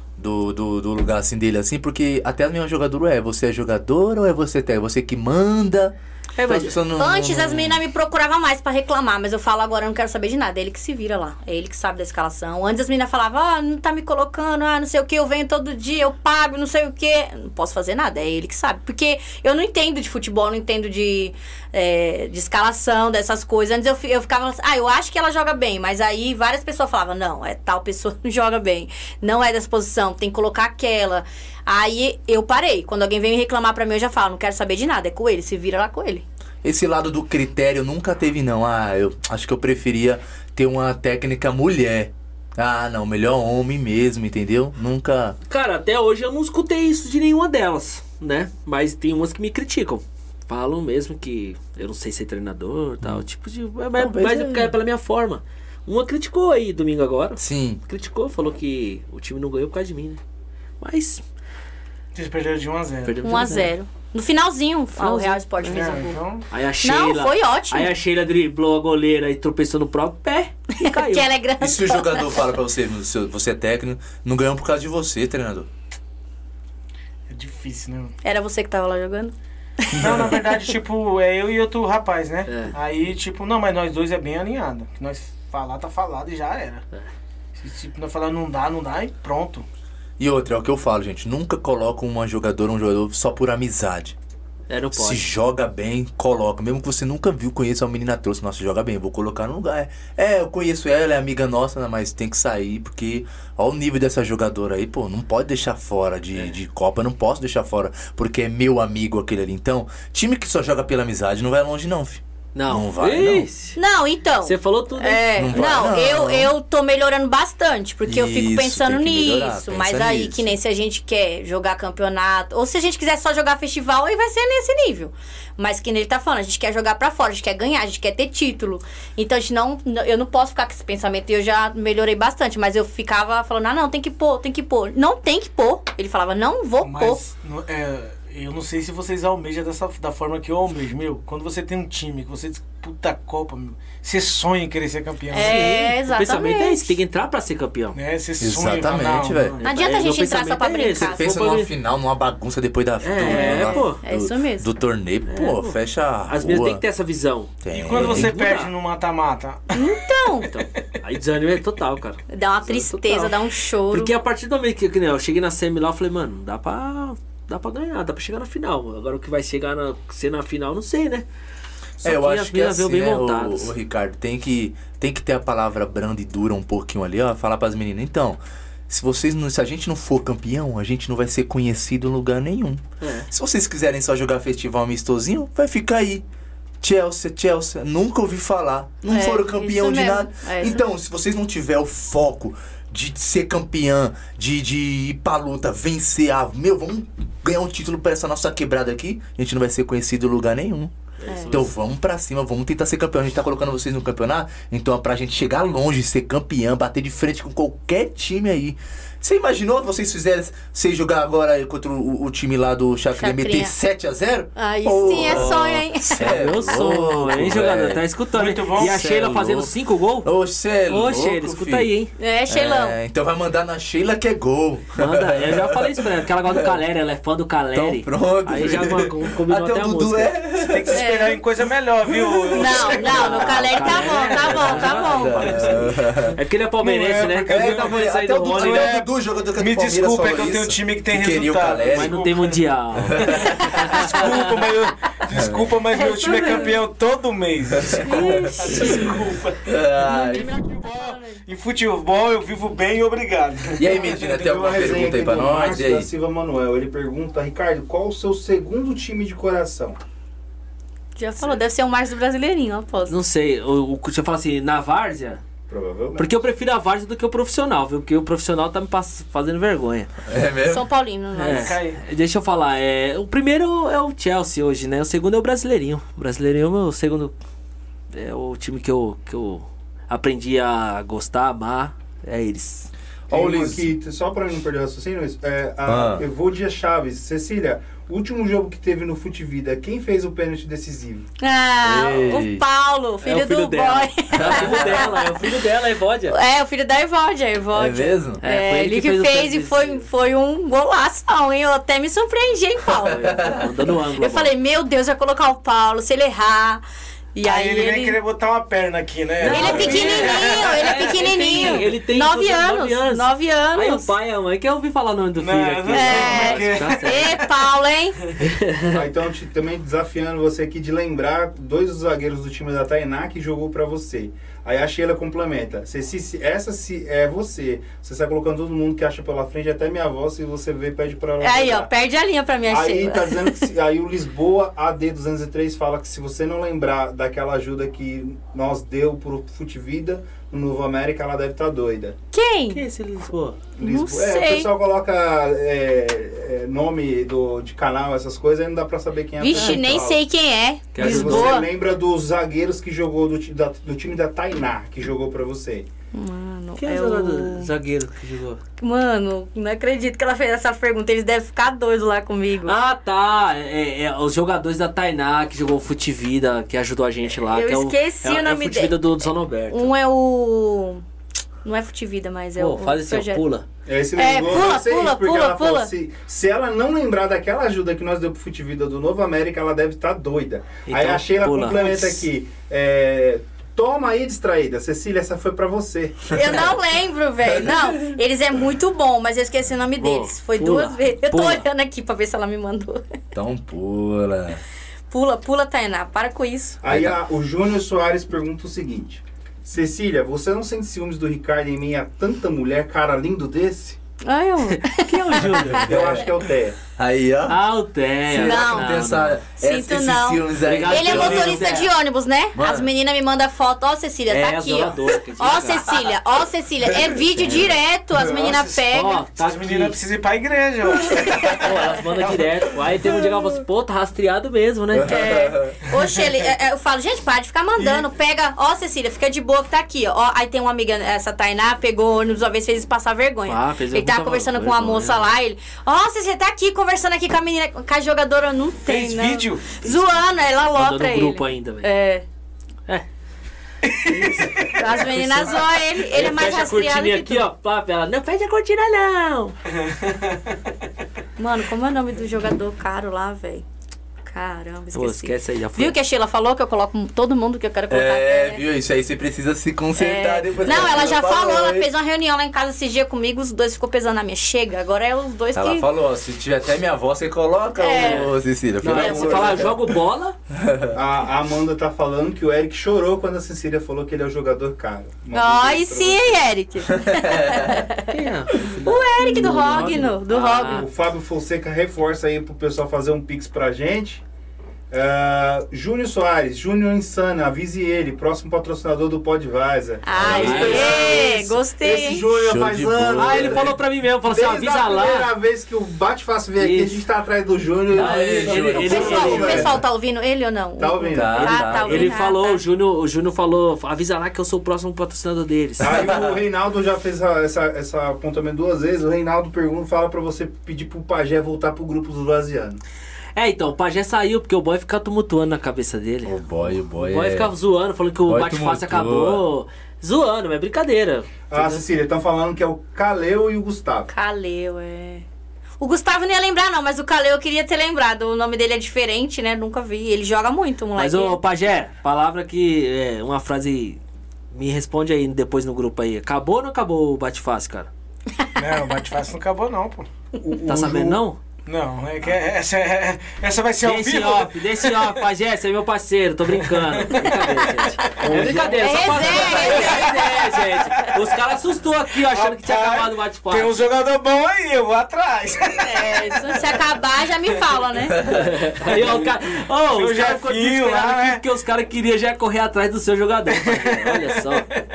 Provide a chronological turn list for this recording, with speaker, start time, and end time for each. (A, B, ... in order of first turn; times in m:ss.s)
0:00.2-0:07.8 A
0:06.4-0:36.2 B
0:36.6-0:45.4 A
0:45.5-1:00.2 C
0:54.0-0:54.7 A
0:57.4-0:57.8 A
1:00.8-1:01.2 C
1:02.2-1:03.2 D
1:03.0-1:03.7 C
1:03.2-1:06.2 B
1:05.0-1:05.4 C
1:05.6-1:06.4 D
1:06.5-1:11.3 C
1:06.8-1:07.9 B
1:10.7-1:12.4 B
1:11.6-1:15.7 A
1:17.3-1:18.2 D
1:18.2-1:20.3 B
1:19.9-1:20.4 A
1:20.0-1:26.8 D
1:22.5-1:22.7 C
1:27.6-1:29.6 D
1:30.2-1:34.2 A
1:34.7-1:35.3 C
1:34.9-1:53.5 A
1:52.6-1:53.8 C
1:53.8-2:17.2 B
1:54.4-1:55.9 C
1:55.4-1:56.5 A
1:58.1-2:00.5 A
2:16.8-2:25.7 D
2:25.3-2:27.0 B
2:25.4-2:28.0 C
2:27.9-2:29.7 D
2:28.4-2:29.6 A
2:29.6-2:31.7 C
2:29.6-2:31.6 B
2:31.0-2:36.8 A
2:33.0-2:34.0 C
2:33.3-2:34.7 B
2:35.3-2:38.7 C
2:37.6-2:38.4 A
2:37.7-2:39.7 D
2:39.7-2:40.5 B
2:40.5-2:43.4 C
2:42.3-2:44.1 B
2:43.9-2:51.2 C
2:52.0-2:53.7 C
2:52.0-3:06.2 A
3:03.0-3:03.3 C
3:06.8-3:20.9 A
3:09.1-3:10.8 B
3:21.2-3:21.7 C
3:21.2-3:21.6 B
3:21.5-3:38.0 A
3:33.2-3:33.7 B
3:34.6-3:36.4 B
3:35.2-3:35.5 C
3:36.2-3:40.3 C
3:38.3-3:39.0 D
3:38.8-3:41.9 A
3:40.9-3:42.1 C
3:42.2-3:43.0 B
3:42.5-3:46.8 A
3:45.0-3:50.4 C
3:47.7-3:51.0 A
3:50.6-3:54.6 D
3:50.9-3:51.4 B
3:52.1-3:52.7 A
3:52.5-3:55.7 B
3:52.8-3:59.0 C
3:54.4-3:56.4 A
3:56.8-3:58.0 D
3:57.4-4:02.2 A
3:58.6-3:59.0 D
3:59.6-4:02.6 D
4:01.9-4:04.4 C
4:03.0-4:03.6 A
4:03.2-4:14.4 D
4:03.4-4:04.0 B
4:05.3-4:05.6 A
4:05.9-4:06.8 B
4:07.8-4:10.5 A
4:08.0-4:09.2 B
4:10.1-4:11.4 B
4:13.8-4:16.1 A
4:14.3-4:20.0 E
4:21.2-4:23.2 B
4:23.1-4:25.4 C
4:25.7-4:26.4 E
4:26.2-4:30.1 C
4:30.3-4:30.8 A
4:30.7-4:31.8 B
4:31.4-4:37.3 C
4:31.5-4:32.0 D
4:38.1-4:42.9 C
4:43.3-4:43.9 A
4:43.3-4:51.3 E
4:45.9-4:46.2 A
4:51.4-4:55.3 B
4:51.8-4:52.6 A
4:53.2-4:56.4 C
4:54.3-4:55.1 A
4:56.3-5:03.6 B
4:57.7-4:58.4 A
4:58.4-5:00.1 C
5:03.0-5:04.5 C
5:03.2-5:03.6 A
5:04.2-5:06.8 B
5:07.4-5:08.2 B
5:07.4-5:11.7 D
5:09.4-5:17.4 C
5:09.4-5:14.1 B
5:15.4-5:17.5 D
5:15.9-5:18.2 B
5:18.4-5:19.1 C
5:18.9-5:31.9 E
5:31.4-5:33.6 B
5:32.7-5:42.2 E
5:42.3-5:42.8 B
5:42.7-5:43.6 C
5:43.8-5:50.2 E
5:43.8-5:44.7 B
5:49.4-5:51.7 B
5:49.5-5:49.8 C
5:50.9-5:51.6 C
5:51.0-5:55.9 E
5:56.1-5:57.7 B
5:56.8-5:58.6 C
5:58.8-6:02.7 B
6:02.6-6:09.9 C
6:07.4-6:09.0 B
6:09.7-6:11.0 B
6:11.6-6:13.4 B
6:12.6-6:13.6 C
6:13.9-6:26.5 E
6:14.2-6:15.9 B
6:20.9-6:22.2 C
6:26.3-6:33.0 B
6:27.5-6:28.0 A
6:30.0-6:31.6 C
6:33.3-6:34.6 A
6:35.1-6:36.8 B
6:36.8-6:44.0 E
6:36.9-6:37.2 A
6:44.2-6:45.8 B
6:44.8-6:46.0 C
6:45.7-6:46.8 E
6:45.7-6:46.2 A
6:46.9-6:47.6 A
6:47.5-6:49.4 C
6:48.3-6:51.8 A
6:48.3-6:48.9 B
6:49.6-6:59.2 B
6:50.6-6:51.9 C
6:52.6-6:52.9 A
6:54.3-6:56.0 C
6:56.9-6:57.2 A
6:57.4-6:57.7 C
6:58.2-7:02.5 D
6:58.9-7:00.0 C
7:01.6-7:05.2 C
7:04.9-7:05.8 A
7:05.1-7:22.2 B
7:05.9-7:06.3 D
7:07.8-7:08.0 D
7:13.5-7:15.3 C
7:18.9-7:19.8 D
7:19.8-7:21.9 C
7:23.8-7:24.7 D
7:24.0-7:29.6 C
7:24.7-7:27.4 B
7:29.8-7:30.4 D
7:31.4-7:33.6 B
7:34.2-7:38.6 B
7:34.9-7:36.0 C
7:37.9-7:41.9 A
7:40.0-7:45.9 B
7:45.5-7:49.8 A
7:47.8-7:48.3 B
7:47.9-7:50.4 C
7:48.9-7:49.6 B
7:50.5-7:50.9 A
7:50.9-7:56.4 E
7:55.3-7:58.1 B
7:57.0-7:57.8 A
7:58.1-8:00.9 C
7:58.6-8:00.9 B
8:00.6-8:04.2 E
8:04.9-8:19.8 E
8:10.0-8:12.2 B
8:10.1-8:11.2 A
8:10.2-8:11.2 C
8:12.4-8:13.7 A
8:13.2-8:15.3 C
8:16.6-8:17.0 C
8:17.9-8:19.7 C
8:17.9-8:19.8 A
8:18.8-8:22.6 B
8:20.8-8:21.5 E
8:21.1-8:22.1 A
8:21.4-8:26.1 C
8:25.8-8:32.8 E
8:25.9-8:26.3 A
8:33.4-8:41.8 C
8:36.2-8:37.5 A
8:38.3-8:39.4 A
8:41.5-8:44.1 E
8:44.1-8:45.2 B
8:45.8-8:51.4 B
8:51.0-8:54.0 C
8:54.5-8:57.9 C
8:58.6-9:00.1 D
9:00.4-9:01.2 E
9:00.7-9:01.4 C
9:01.6-9:05.2 D
9:03.8-9:13.8 C
9:06.6-9:07.3 D
9:08.0-9:10.5 B
9:08.2-9:09.6 E
9:09.1-9:11.2 D
9:12.2-9:16.8 D
9:15.8-9:18.2 B
9:18.1-9:18.6 A
9:18.3-9:24.7 C
9:18.8-9:19.3 D
9:19.9-9:21.4 D
9:23.6-9:24.6 D